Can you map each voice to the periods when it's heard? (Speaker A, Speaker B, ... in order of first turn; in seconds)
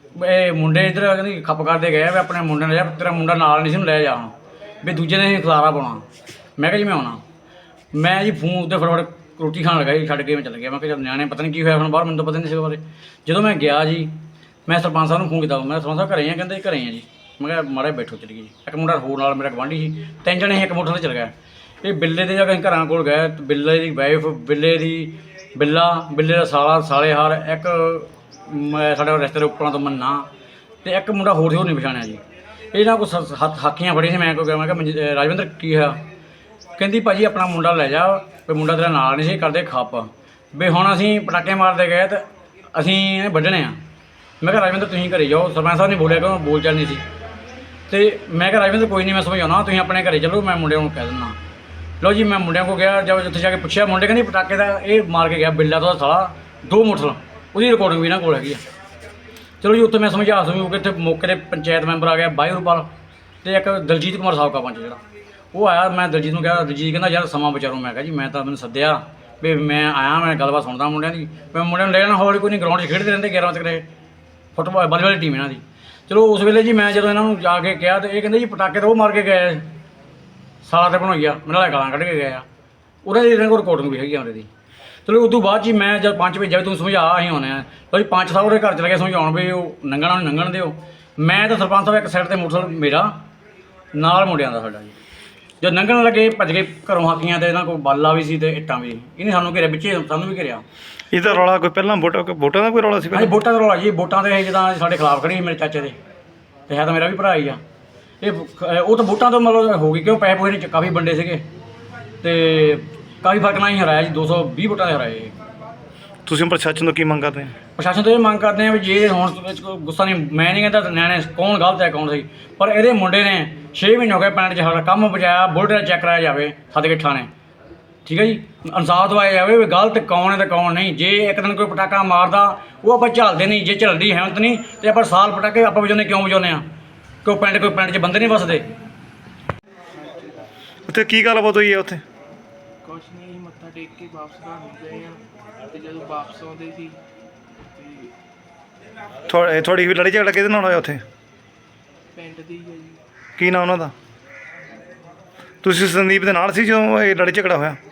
Speaker A: 0.1-6.1, 6.6-7.2, 7.9-14.2, 14.7-30.3, 30.8-32.2, 32.7-36.0, 36.8-43.8, 44.4-47.0, 47.9-51.4, 52.0-58.6, 59.6-62.9, 63.4-65.0, 65.5-73.8, 74.6-79.7, 80.6-82.5, 83.0-84.5, 85.1-93.1, 93.9-95.0, 95.6-100.7, 103.1-106.0, 106.7-107.6, 108.2-111.5, 112.2-115.4, 117.8-127.3, 128.1-136.6, 137.2-138.7
Speaker B: 101.1-103.4, 116.3-117.6, 140.9-142.0, 149.3-151.0, 153.4-153.9, 155.6-157.8
Speaker C: 139.9-140.5, 142.8-147.0, 147.8-148.1, 152.1-153.0